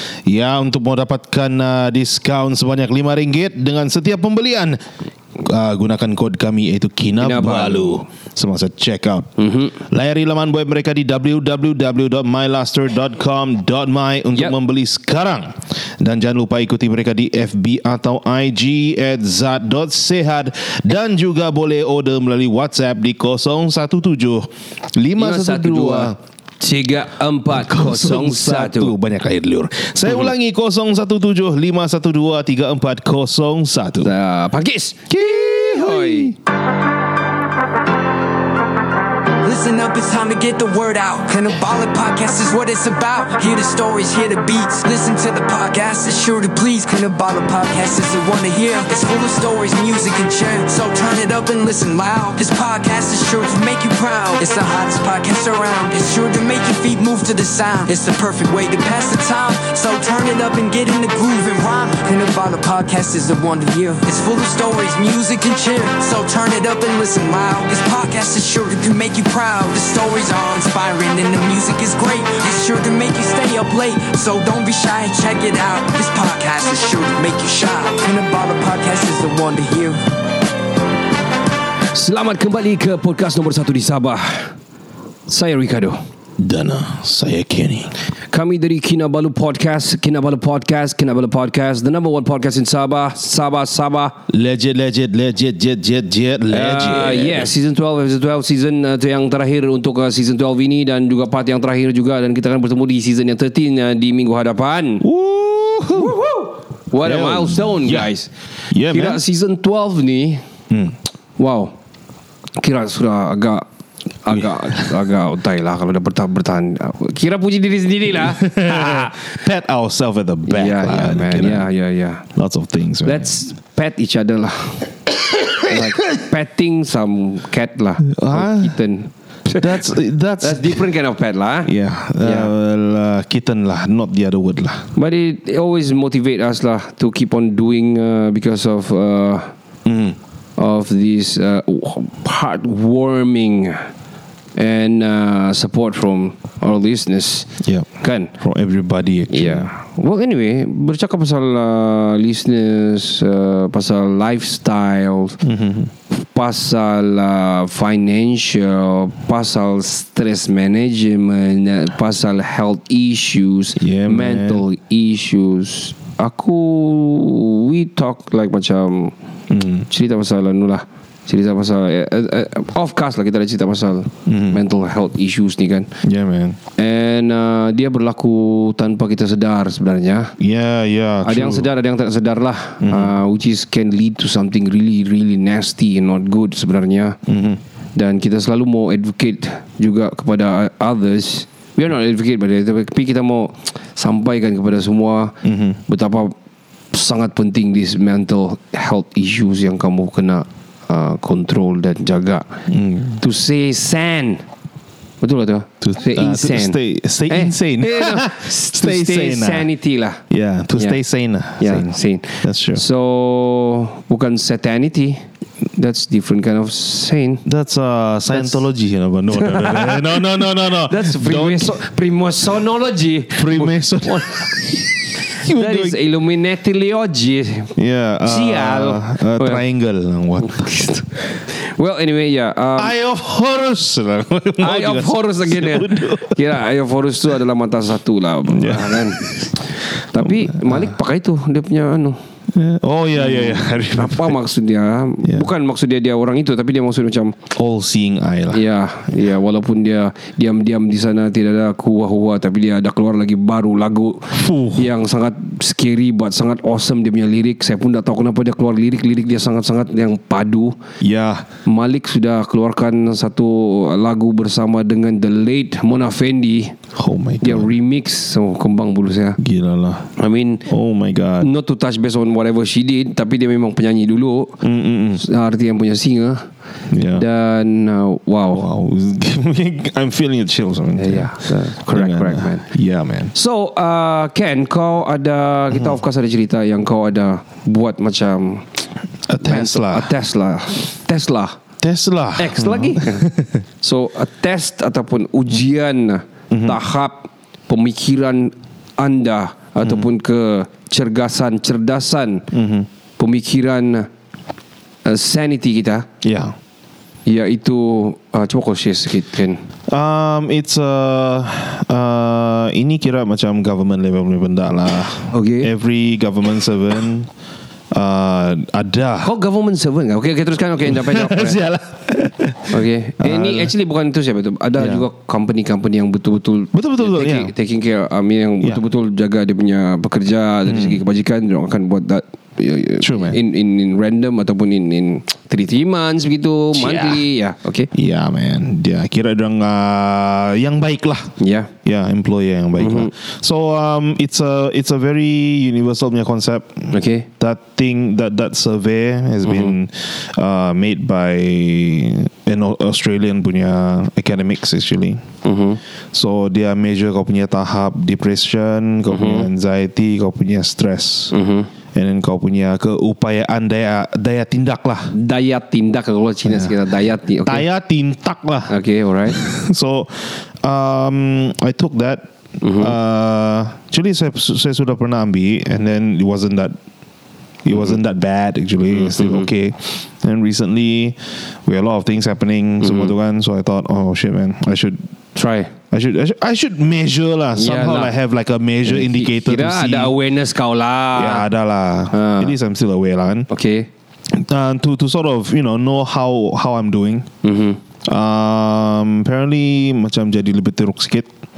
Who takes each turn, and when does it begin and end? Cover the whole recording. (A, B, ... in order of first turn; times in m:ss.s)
0:00.2-0:04.8 A
0:05.4-0:26.2 A
0:07.2-0:08.0 B
0:09.4-0:09.8 B
0:25.2-0:28.9 B
0:27.5-0:34.1 A
0:34.0-0:36.3 B
0:35.1-0:36.4 A
0:39.4-1:20.0 C
1:21.9-1:24.5 B
1:25.3-1:26.0 B
1:26.4-1:27.9 A
1:28.3-1:34.2 B
1:34.3-1:37.5 A
1:36.5-1:45.0 B
1:45.0-1:46.2 A
1:45.9-1:48.3 B
1:47.0-1:48.1 A
1:48.7-1:49.2 A
1:48.9-1:50.4 B
1:50.7-1:51.0 A
1:51.4-1:51.7 B
1:52.6-1:53.7 B
1:54.2-1:59.2 B
1:54.3-1:54.9 A
1:58.1-2:01.7 A
2:00.5-2:02.2 B
2:02.3-2:03.3 A
2:03.0-2:04.9 B
2:05.6-2:09.9 B
2:08.0-2:08.8 A
2:09.6-2:10.9 A
2:10.4-2:12.5 B
2:11.6-2:14.9 A
2:15.0-2:19.5 B
2:19.8-2:20.2 A
2:20.6-2:23.9 B
2:24.6-2:27.5 B
2:27.6-2:29.7 A
2:28.0-2:28.3 B
2:29.3-2:35.4 B
2:35.4-2:35.9 A
2:36.1-2:49.1 B
2:43.8-2:44.6 A
2:49.5-2:49.9 A
2:49.9-2:55.9 B
2:54.3-2:54.6 A
2:56.0-2:56.6 A
2:56.8-3:00.3 B
3:00.4-3:01.7 A
3:01.2-3:07.2 B
3:02.8-3:03.2 A
3:07.3-3:07.6 A
3:08.0-3:15.4 B
3:15.4-3:15.8 A
3:15.9-3:16.3 B
3:16.9-3:22.6 B
3:22.7-3:23.2 A
3:23.2-3:24.4 B
3:25.2-3:30.2 B
3:25.8-3:29.7 A
3:30.3-3:32.8 A
3:31.6-3:35.2 B
3:35.8-3:37.4 B
3:37.4-3:41.8 A
3:38.3-3:38.6 B
3:39.4-3:40.2 B
3:40.8-3:44.5 B
3:43.3-3:46.0 A
3:45.4-3:47.7 B
3:47.8-3:50.8 A
3:48.2-3:49.6 B
3:50.4-3:53.0 B
3:52.8-3:56.5 A
3:54.6-4:02.2 B
3:58.5-4:00.9 A
4:02.5-4:04.4 A
4:03.2-4:07.4 B
4:07.5-4:08.6 A
4:08.5-4:20.8 B
4:14.3-4:14.9 A
4:21.0-4:21.5 A
4:21.6-4:26.8 B
4:27.0-4:27.7 A
4:27.4-4:29.4 B
4:29.4-4:30.1 A
4:30.2-4:30.6 B
4:30.7-4:31.5 A
4:31.4-4:34.6 B
4:34.6-4:35.2 A
4:35.2-4:36.4 B
4:36.9-4:37.2 A
4:37.2-4:38.7 B
4:38.5-4:43.3 A
4:41.0-4:42.7 B
4:43.3-4:48.7 B
4:49.3-4:50.1 A
4:49.4-4:51.6 B
4:51.8-4:53.6 A
4:52.4-4:53.3 B
4:53.8-5:02.5 B
4:56.5-4:56.8 A
5:02.5-5:02.9 A
5:03.2-5:04.1 B
5:05.0-5:06.1 B
5:06.2-5:06.6 A
5:07.3-5:09.6 B
5:09.9-5:17.3 A
5:15.3-5:15.7 B
5:17.9-5:19.3 A
5:19.2-5:21.6 B
5:20.8-5:23.7 A
5:22.7-5:37.9 B
5:24.8-5:25.0 A
5:26.7-5:27.5 A
5:30.7-5:31.0 A
5:33.0-5:33.4 A
5:36.7-5:37.2 A
5:37.9-5:55.2 A
5:41.4-5:41.7 B
5:42.8-5:43.1 B
5:46.9-5:47.3 B
5:49.4-5:49.7 B
5:55.4-5:55.8 B
5:56.1-6:01.3 A
5:59.1-5:59.5 B
6:01.3-6:01.7 B
6:01.9-6:05.1 A
6:05.1-6:07.7 B
6:06.4-6:06.8 A
6:07.4-6:16.8 A
6:08.7-6:09.4 B
6:12.6-6:13.0 B
6:17.6-6:25.0 A
6:18.9-6:19.5 B
6:22.8-6:23.1 B
6:25.4-6:25.7 B
6:25.9-6:30.1 A
6:27.6-6:28.1 B
6:28.9-6:31.5 B
6:31.2-6:33.5 A
6:32.1-6:32.5 B
6:33.5-6:33.9 B
6:34.3-6:37.3 A
6:37.4-6:37.8 B
6:38.0-6:41.3 A